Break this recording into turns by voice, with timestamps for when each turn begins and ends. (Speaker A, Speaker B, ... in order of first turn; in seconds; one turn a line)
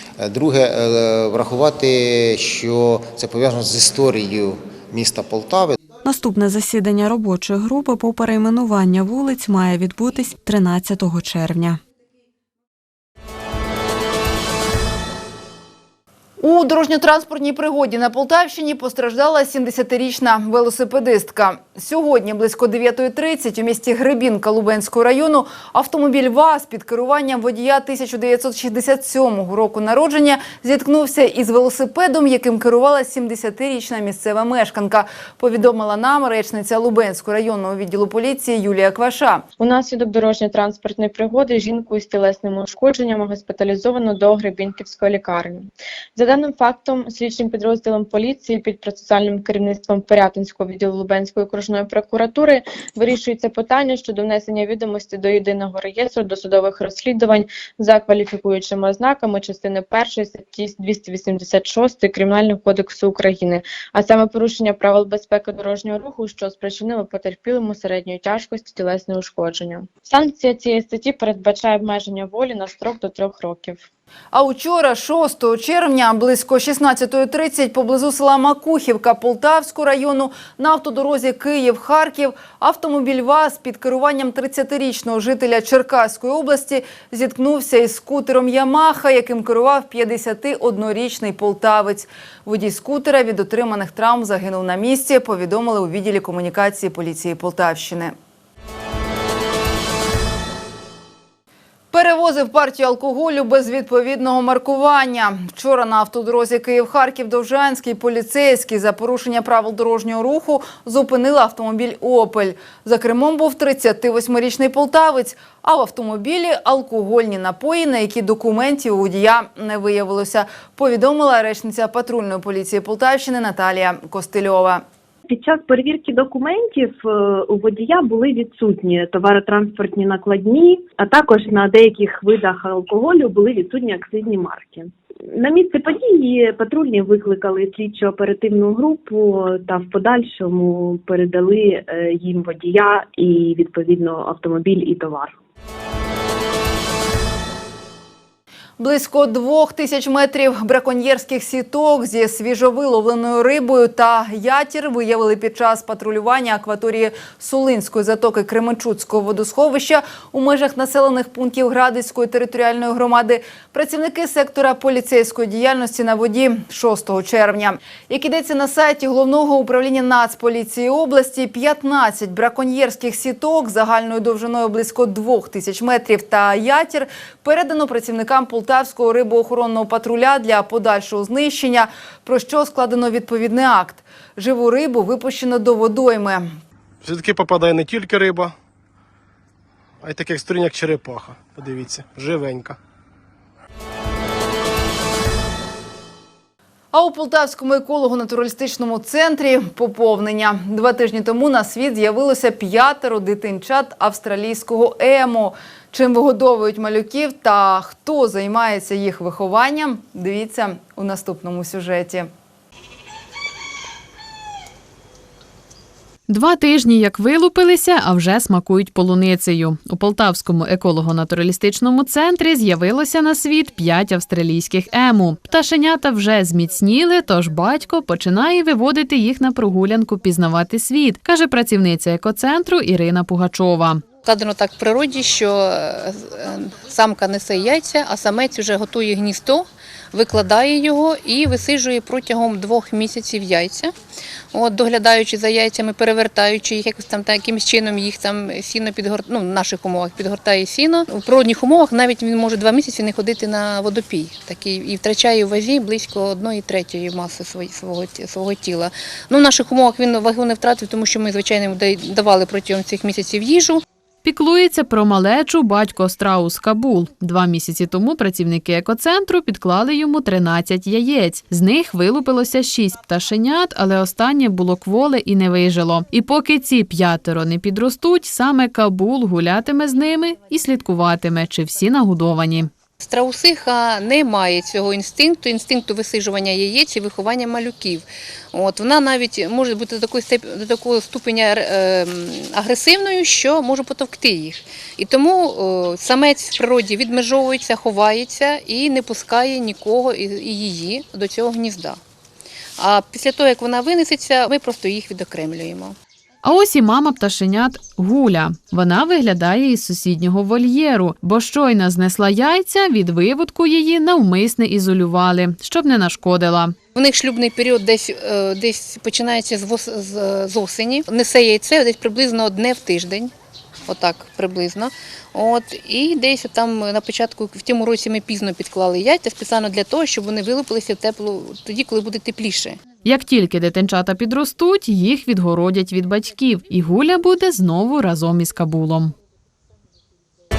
Speaker A: 0.2-5.8
Speaker B: 6.0-11.8
Speaker C: 16.4-39.4
Speaker D: 39.6-73.8
Speaker C: 74.3-98.1
Speaker C: 101.9-124.8
Speaker E: 125.2-145.3
Speaker C: 148.8-186.6
Speaker F: 187.1-188.5
Speaker F: 190.1-192.7
Speaker C: 196.9-212.3
Speaker G: 216.3-234.0
Speaker H: 234.2-243.9
Speaker H: 244.5-263.8
Speaker G: 264.2-282.7
Speaker H: 283.0-302.0
Speaker H: 302.8-305.9
Speaker G: 306.4-316.7
Speaker H: 316.9-323.3
Speaker H: 323.9-332.8
Speaker G: 333.0-339.1